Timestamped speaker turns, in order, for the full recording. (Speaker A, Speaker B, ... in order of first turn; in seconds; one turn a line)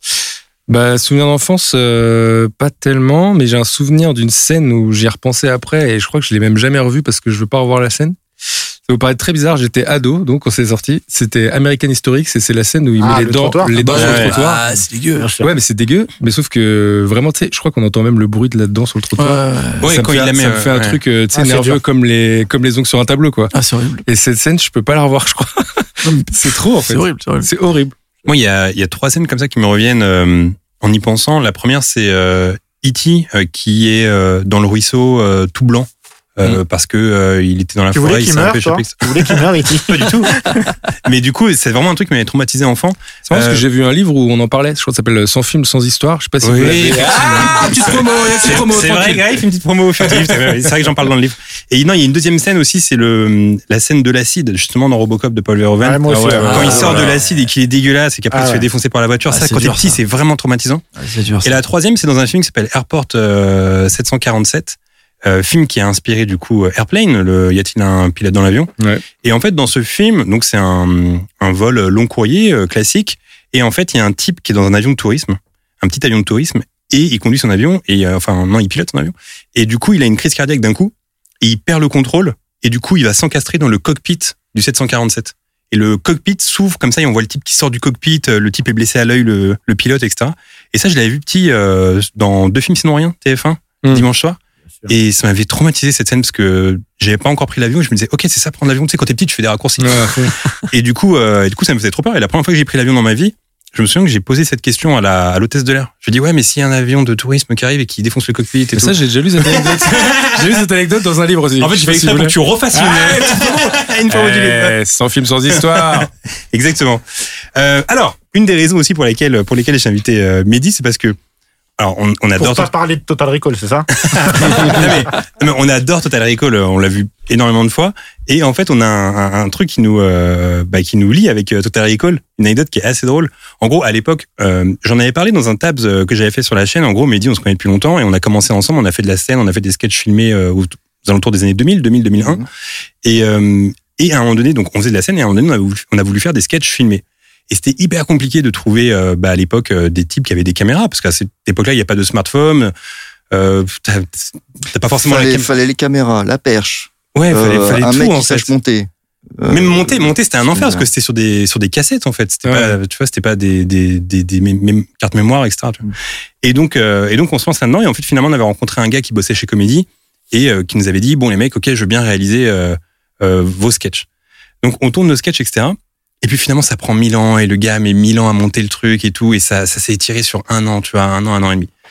Speaker A: 0.7-8.2
Speaker A: 8.9-14.6
Speaker B: 13.0-14.4
Speaker C: 13.8-15.3
Speaker D: 13.9-14.4
Speaker B: 15.2-15.5
Speaker A: 15.4-23.5
Speaker C: 19.2-19.9
Speaker D: 19.8-21.0
Speaker B: 21.3-21.8
Speaker C: 23.5-24.1
Speaker A: 24.1-27.9
Speaker C: 26.0-27.5
Speaker D: 28.3-40.4
Speaker B: 37.9-40.6
Speaker D: 41.0-43.6
Speaker A: 43.3-49.4
Speaker D: 46.4-60.8
Speaker A: 50.0-50.6
Speaker B: 55.8-57.1
Speaker A: 56.1-57.0
Speaker C: 56.4-57.1
Speaker B: 58.3-58.7
Speaker C: 59.3-60.0
Speaker C: 61.0-61.6
Speaker D: 61.4-68.7
Speaker D: 69.2-110.5
Speaker A: 99.8-100.4
Speaker A: 108.5-116.1
Speaker D: 111.6-114.8
Speaker D: 115.5-117.0
Speaker D: 117.6-121.2
Speaker D: 121.8-122.7
Speaker B: 122.4-124.9
Speaker D: 124.0-142.5
Speaker E: 142.2-142.4
Speaker D: 143.0-152.7
Speaker D: 153.3-155.5
Speaker E: 155.0-160.9
Speaker D: 157.2-158.5
Speaker D: 159.5-165.9
Speaker A: 162.4-162.8
Speaker D: 166.4-174.1
Speaker D: 174.6-181.7